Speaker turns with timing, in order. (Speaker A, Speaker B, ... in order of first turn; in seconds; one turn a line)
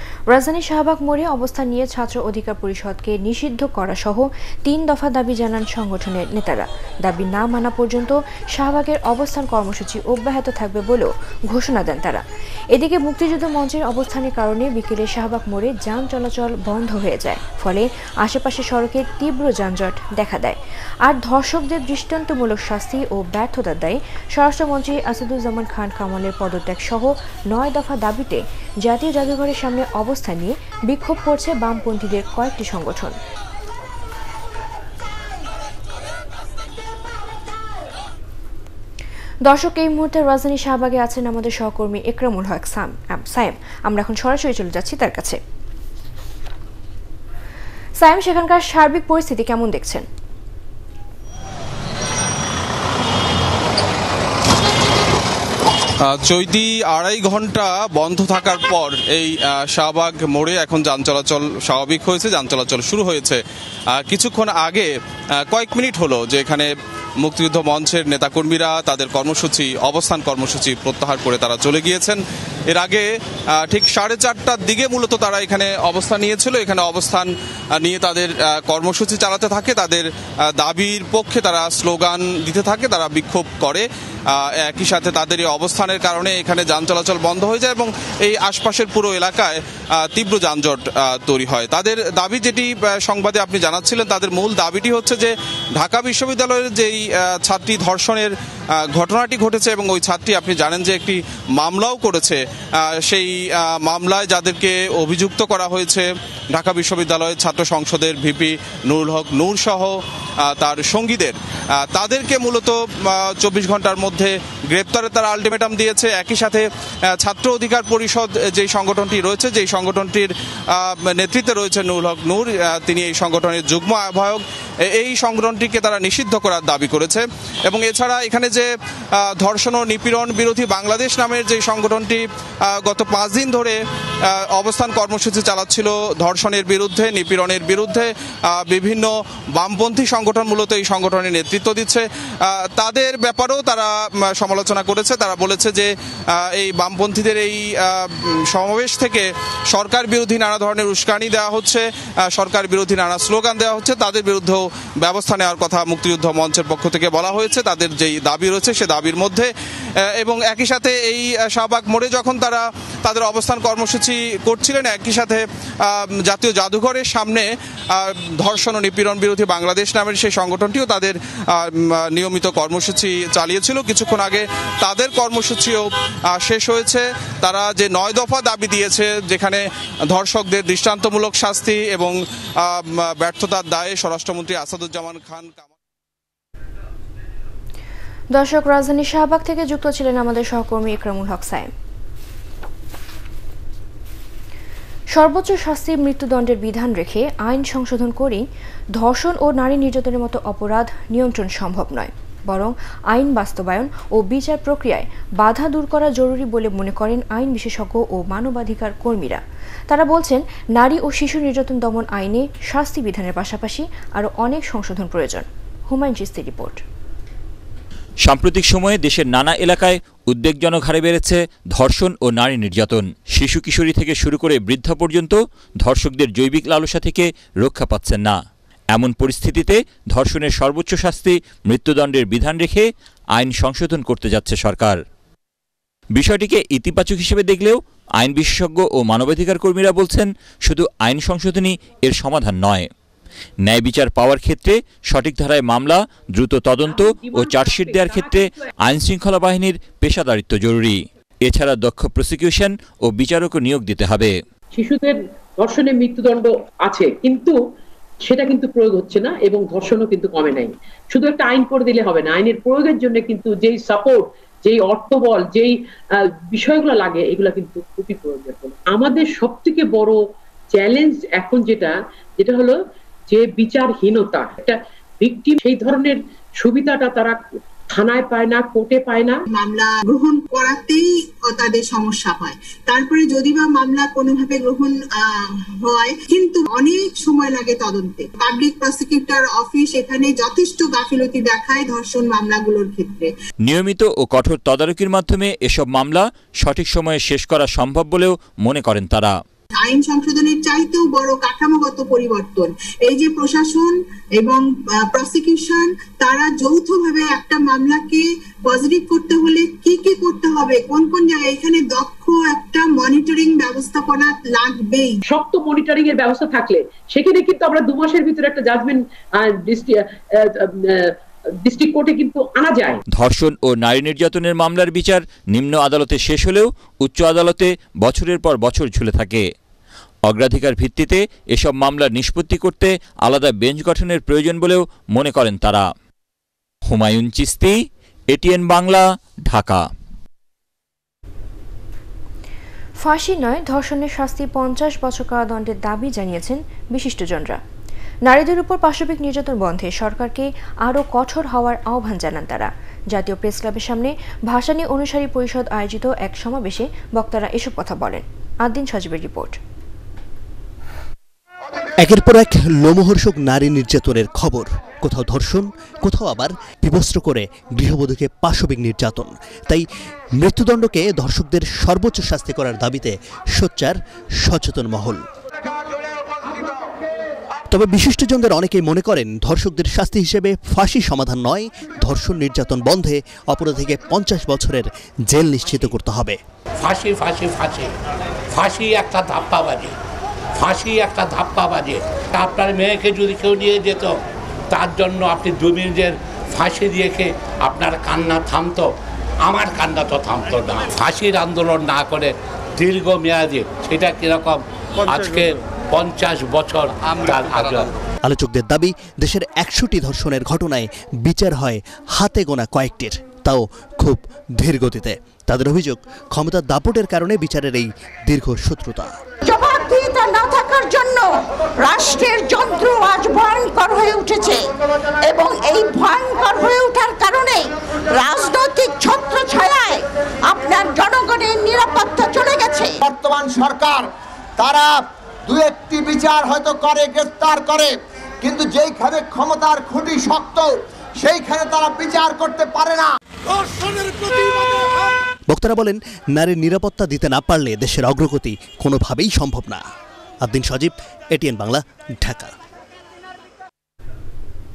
Speaker A: 0.3-33.2
Speaker A: 39.4-45.4
Speaker A: 48.0-50.0
Speaker B: 56.0-63.4
Speaker B: 63.9-66.7
Speaker B: 67.2-159.5
Speaker B: 160.1-185.7
Speaker A: 188.3-191.7
Speaker A: 195.1-216.8
Speaker C: 218.2-228.4
Speaker C: 228.9-235.0
Speaker C: 236.1-242.9
Speaker C: 243.6-254.3
Speaker D: 246.9-248.7
Speaker D: 254.8-257.6
Speaker D: 258.3-270.2
Speaker D: 270.7-272.8
Speaker D: 273.3-277.4
Speaker D: 277.9-279.4
Speaker E: 279.5-293.3
Speaker C: 293.6-299.4
Speaker E: 299.8-315.2
Speaker D: 315.3-323.0
Speaker C: 323.1-329.4
Speaker C: 330.2-335.9
Speaker C: 336.9-339.8
Speaker A: 343.0-347.6
Speaker A: 348.2-359.6
Speaker F: 362.0-375.2
Speaker F: 377.7-386.4
Speaker G: 386.8-387.9
Speaker G: 388.5-389.9
Speaker G: 390.6-394.2
Speaker G: 394.7-398.9
Speaker G: 399.4-407.9
Speaker F: 408.2-419.1
Speaker H: 419.4-421.3
Speaker H: 421.8-424.6
Speaker H: 425.2-433.0
Speaker I: 433.0-434.1
Speaker I: 434.6-434.9
Speaker I: 435.5-443.1
Speaker F: 445.5-449.8
Speaker F: 450.4-452.5